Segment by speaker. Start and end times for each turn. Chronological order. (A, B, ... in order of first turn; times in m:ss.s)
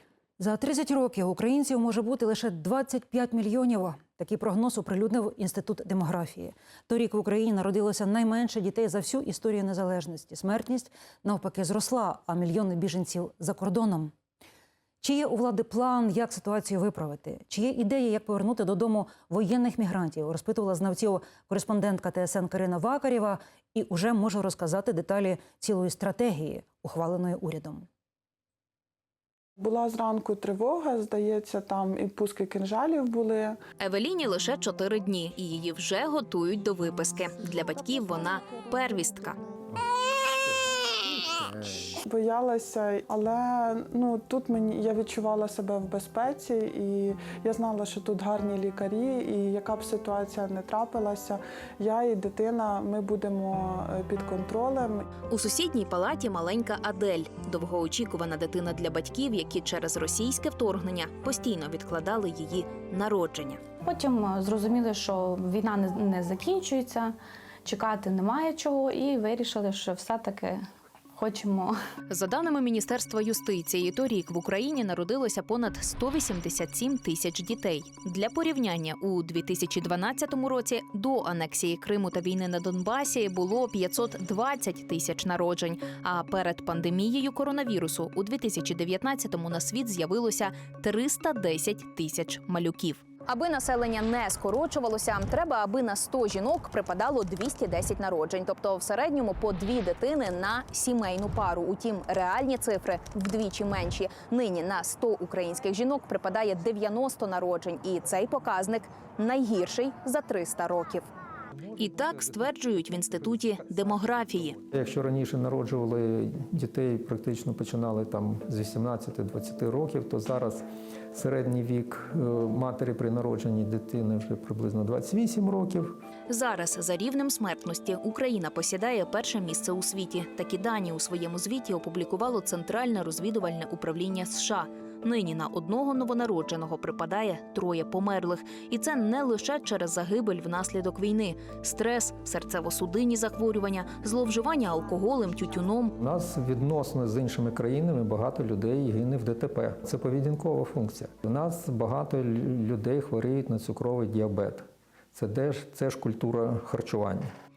0:00.4-0:14.1 A
0:15.0-0:27.8 A
0:29.6-0:33.6 B
0:33.8-0:39.4 C
0:37.7-0:39.4 B
0:41.2-0:41.8 D
0:42.0-0:55.1 B
0:55.3-1:03.6 C
1:03.8-1:11.8 E
1:12.1-1:51.1 C
1:51.8-1:54.6 C
1:54.6-2:05.9 D
2:06.3-2:25.9 C
2:26.0-2:37.3 D